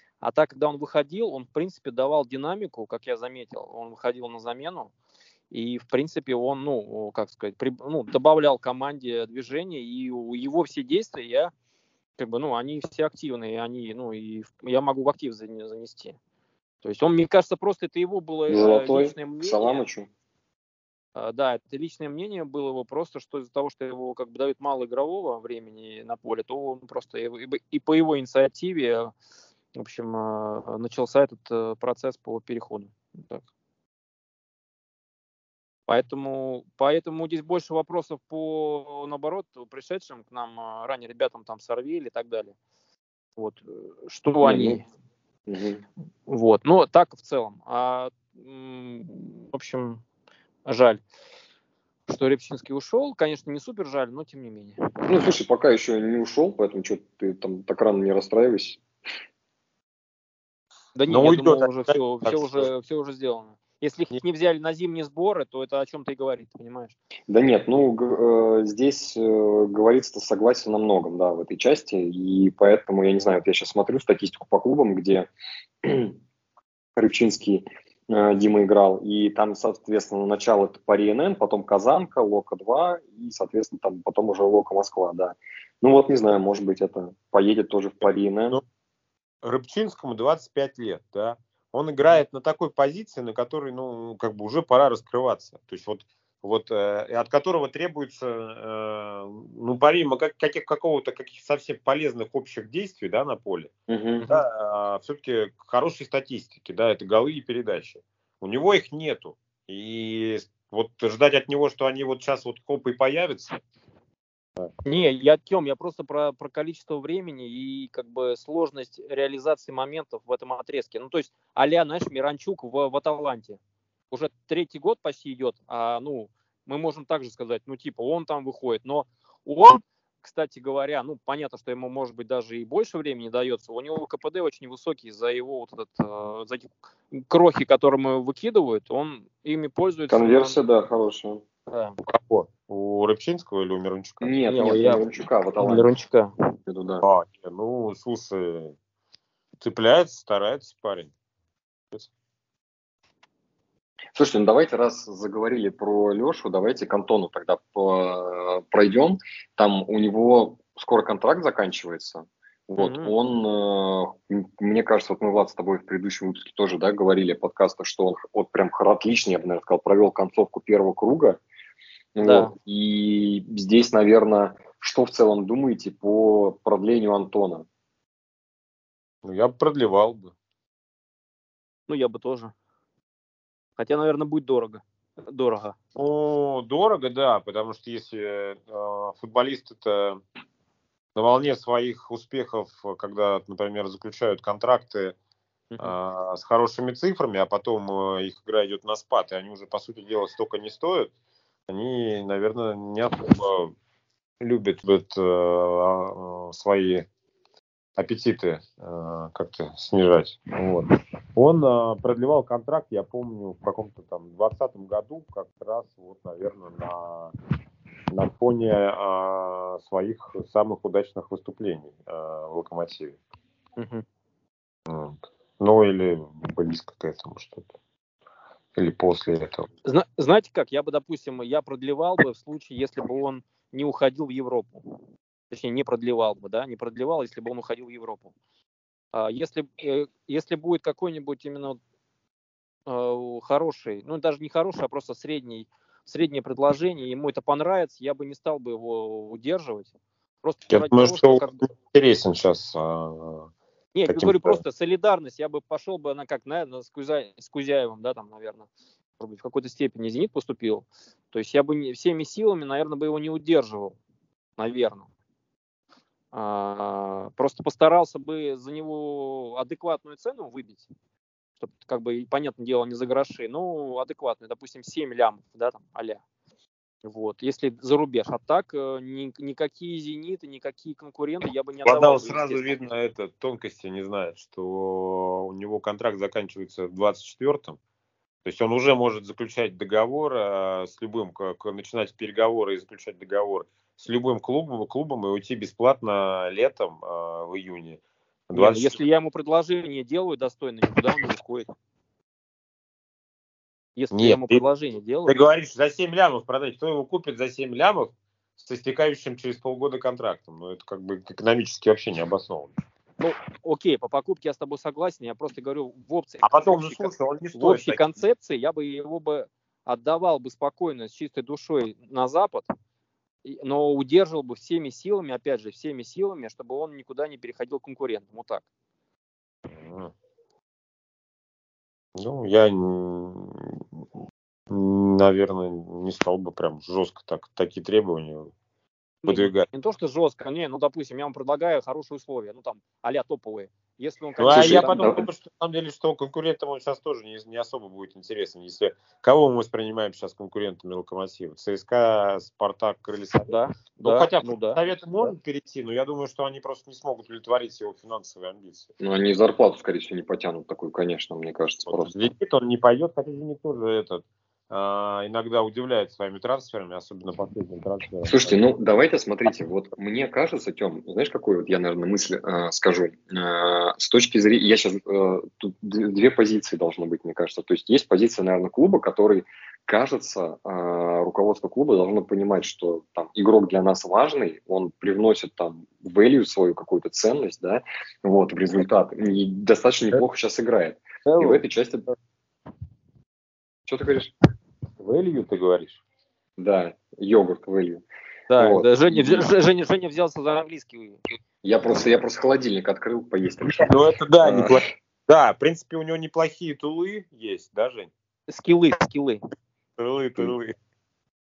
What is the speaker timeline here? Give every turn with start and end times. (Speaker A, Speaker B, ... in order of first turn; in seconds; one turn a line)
Speaker A: 0.2-4.9
Speaker A: 5.5-11.5
Speaker A: 12.2-16.1
Speaker A: 16.8-19.8
Speaker B: 18.5-20.1
Speaker A: 21.1-29.1
Speaker A: 29.8-33.4
Speaker A: 35.9-42.5
Speaker A: 43.4-44.8
Speaker B: 44.4-44.8
Speaker B: 45.5-45.8
Speaker A: 46.3-50.0
Speaker A: 50.6-51.0
Speaker A: 52.1-54.8
Speaker B: 55.1-58.8
Speaker A: 61.0-67.0
Speaker C: 61.1-62.7
Speaker B: 67.3-75.3
Speaker B: 75.8-76.2
Speaker B: 77.0-88.6
Speaker C: 89.4-103.7
Speaker B: 103.9-104.2
Speaker C: 104.3-113.6
Speaker A: 114.8-123.6
Speaker A: 124.1-140.6
Speaker B: 140.1-141.4
Speaker A: 141.7-142.0
Speaker C: 142.0-144.3
Speaker B: 144.2-145.9
Speaker A: 144.5-145.0
Speaker A: 145.6-146.3
Speaker B: 146.7-147.0
Speaker C: 147.0-148.7
Speaker C: 149.6-151.1
Speaker B: 154.1-171.4
Speaker A: 162.8-163.1
Speaker B: 172.1-177.7
Speaker A: 172.2-172.5
Speaker C: 179.2-180.3
Speaker A: 181.9-182.5
Speaker A: 183.8-185.8
Speaker C: 185.9-190.2
Speaker C: 191.1-195.1
Speaker A: 195.7-195.9
Speaker C: 195.8-201.1
Speaker C: 201.7-203.7
Speaker C: 204.4-207.1
Speaker C: 208.0-217.3
Speaker C: 218.1-223.2
Speaker A: 223.8-224.0
Speaker C: 224.9-227.7
Speaker C: 228.7-229.7
Speaker A: 229.8-234.8
Speaker A: 235.5-238.3
Speaker A: 239.1-241.8
Speaker A: 242.8-249.9
Speaker A: 250.4-251.7
Speaker C: 250.7-253.5
Speaker A: 253.9-263.9
Speaker C: 254.1-254.6
Speaker A: 264.6-265.1
Speaker A: 266.3-270.9
Speaker A: 271.6-276.2
Speaker A: 277.0-282.8
Speaker C: 281.8-287.8
Speaker C: 288.4-298.9
Speaker A: 298.5-301.7
Speaker A: 303.9-305.4
Speaker C: 304.1-304.6
Speaker C: 305.3-312.8
Speaker A: 313.2-322.7
Speaker C: 316.4-318.2
Speaker A: 323.4-328.6
Speaker C: 329.7-330.1
Speaker C: 332.1-333.8
Speaker C: 334.7-338.5
Speaker A: 339.2-345.3
Speaker C: 339.3-339.7
Speaker C: 344.4-358.9
Speaker B: 344.5-345.2
Speaker A: 353.5-355.3
Speaker B: 359.0-362.3
Speaker C: 361.9-368.6
Speaker B: 368.2-392.0
Speaker B: 393.9-394.3
Speaker C: 395.0-396.0
Speaker B: 396.6-399.4
Speaker A: 398.5-401.2
Speaker B: 401.6-403.9
Speaker C: 403.6-408.1
Speaker B: 404.4-404.8
Speaker A: 408.5-409.4
Speaker C: 410.0-410.7